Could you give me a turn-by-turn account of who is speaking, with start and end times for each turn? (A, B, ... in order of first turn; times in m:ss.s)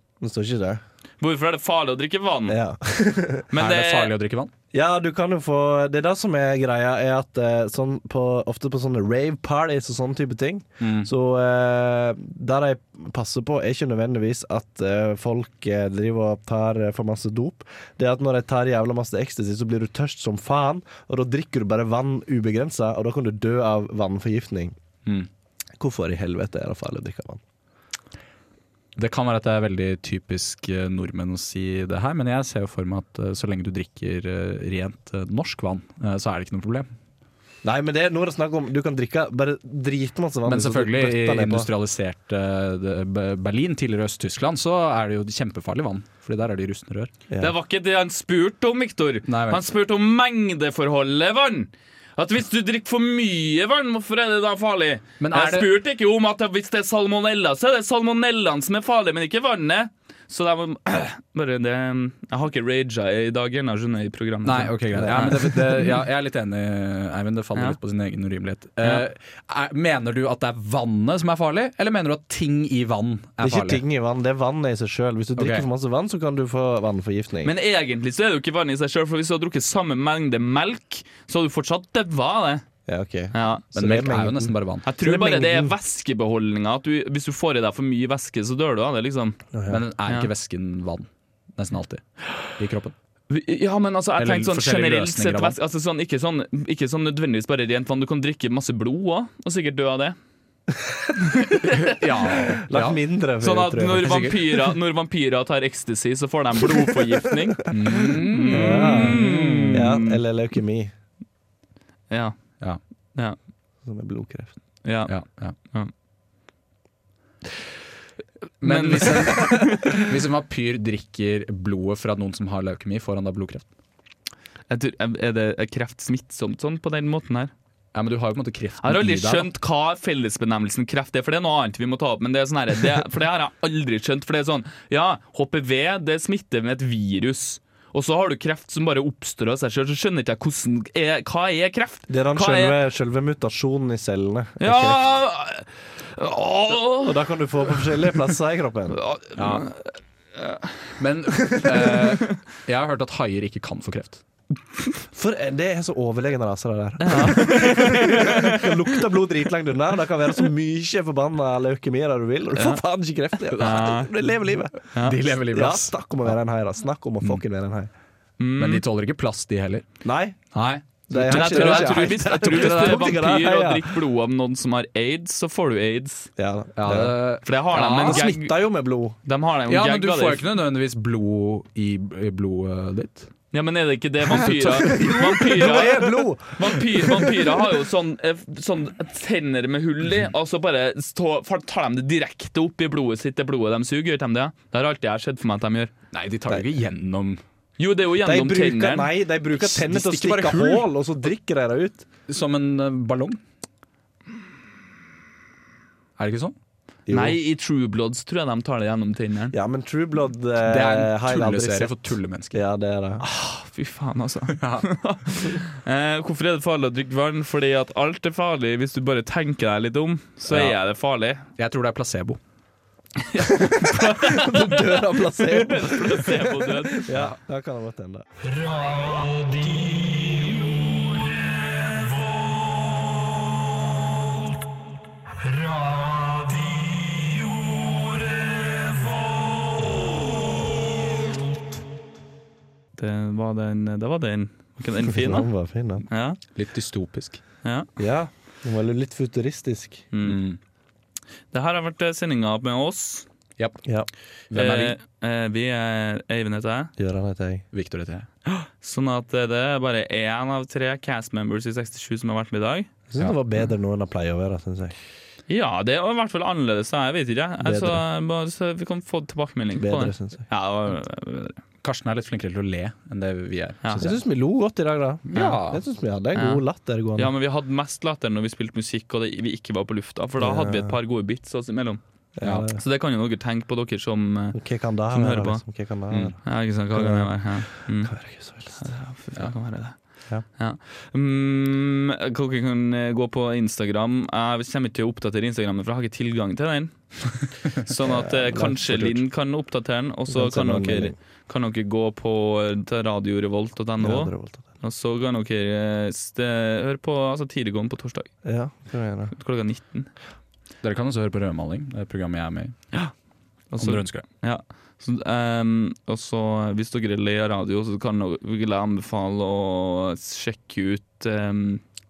0:00.2-0:00.8 A
0:01.2-0:02.6 B
0:02.5-0:03.5 A
0:03.5-0:04.1 B
0:03.6-0:04.5 C
0:04.7-0:24.8 A
0:10.8-0:11.1 C
0:25.8-0:27.4 A
0:29.0-0:36.9 C
0:37.6-0:41.7 A
0:40.4-0:47.1 C
0:47.4-1:05.8 B
0:49.3-0:49.6 C
0:55.2-0:55.7 C
1:04.4-1:13.8 C
1:04.9-1:05.6 A
1:13.4-1:17.5 A
1:15.4-1:15.7 C
1:17.4-1:22.6 B
1:22.8-1:25.7 A
1:23.3-1:23.6 B
1:23.7-1:24.8 C
1:24.8-1:29.4 B
1:29.5-1:29.8 A
1:29.7-1:32.9 C
1:33.3-1:40.2 B
1:34.2-1:35.6 C
1:41.4-1:41.8 B
1:41.8-1:43.0 C
1:42.7-1:44.3 A
1:43.4-1:50.2 B
1:44.0-1:44.6 C
1:47.7-1:49.8 C
1:48.5-1:50.9 A
1:52.1-1:52.4 B
1:53.8-1:54.5 A
1:54.8-1:55.9 B
1:55.1-1:55.6 C
1:58.6-2:03.6 C
1:58.6-2:00.0 B
2:04.7-2:07.5 B
2:07.9-2:09.5 C
2:08.8-2:22.8 B
2:22.1-2:25.0 A
2:24.6-2:27.9 B
2:27.0-2:29.0 A
2:28.9-2:30.7 B
2:29.4-2:29.7 C
2:31.0-2:34.2 C
2:31.6-2:31.8 A
2:35.1-2:47.9 A
2:37.0-2:39.0 B
2:42.6-2:42.8 B
2:43.6-2:44.1 B
2:45.0-2:46.3 C
2:48.4-2:48.8 B
2:48.6-2:49.8 C
2:50.0-2:50.4 A
2:50.5-2:53.2 C
2:51.1-2:53.9 A
2:51.3-2:56.3 B
2:56.4-2:57.1 A
2:56.8-2:58.2 C
2:57.4-2:58.5 B
2:58.0-2:59.2 A
2:59.2-3:00.4 B
2:59.7-3:03.3 C
3:03.5-3:15.9 B
3:04.3-3:07.7 A
3:16.1-3:17.4 C
3:17.8-3:19.1 B
3:18.2-3:22.0 A
3:19.6-3:20.9 C
3:22.3-3:23.4 C
3:26.2-3:26.5 C
3:27.1-3:27.4 A
3:27.1-3:29.5 B
3:29.5-3:33.2 A
3:30.6-3:32.6 C
3:33.2-3:41.4 B
3:34.6-3:34.9 C
3:40.4-3:40.8 C
3:41.6-3:42.4 C
3:43.2-3:47.1 B
3:43.4-3:48.2 A
3:47.1-3:47.4 C
3:48.9-3:49.6 B
3:50.3-3:50.6 B
4:03.0-4:05.5 B
4:05.1-4:06.0 A
4:06.1-4:06.4 B
4:06.5-4:07.4 C
4:07.6-4:07.9 B
4:08.0-4:10.0 A
4:10.1-4:10.4 B
4:10.2-4:10.6 C
4:11.5-4:13.2 B
4:14.5-4:15.0 C
4:14.5-4:16.9 B
4:17.0-4:17.6 A
4:17.7-4:18.3 C
4:18.5-4:22.9 B
4:23.1-4:25.0 A
4:25.5-4:31.6 B
4:27.6-4:28.0 A
4:29.7-4:30.4 A
4:31.8-4:34.1 C
4:34.0-4:37.3 A
4:35.3-4:35.8 C
4:36.3-4:36.6 B
4:37.2-4:42.0 B
4:40.4-4:41.0 A
4:42.4-4:42.8 A
4:42.4-4:42.7 C
4:42.7-4:44.6 B
4:44.5-4:46.4 A
4:45.1-4:45.6 B
4:46.2-4:48.1 B
4:46.9-4:48.9 A
4:48.7-4:50.0 B
4:50.6-5:08.3 B
4:58.0-4:58.8 A
4:58.8-4:59.2 C
5:00.3-5:01.2 A
5:04.0-5:04.6 A
5:08.4-5:09.3 A
5:09.3-5:10.1 B
5:10.8-5:12.8 C
5:13.7-5:21.8 B
5:13.8-5:14.2 C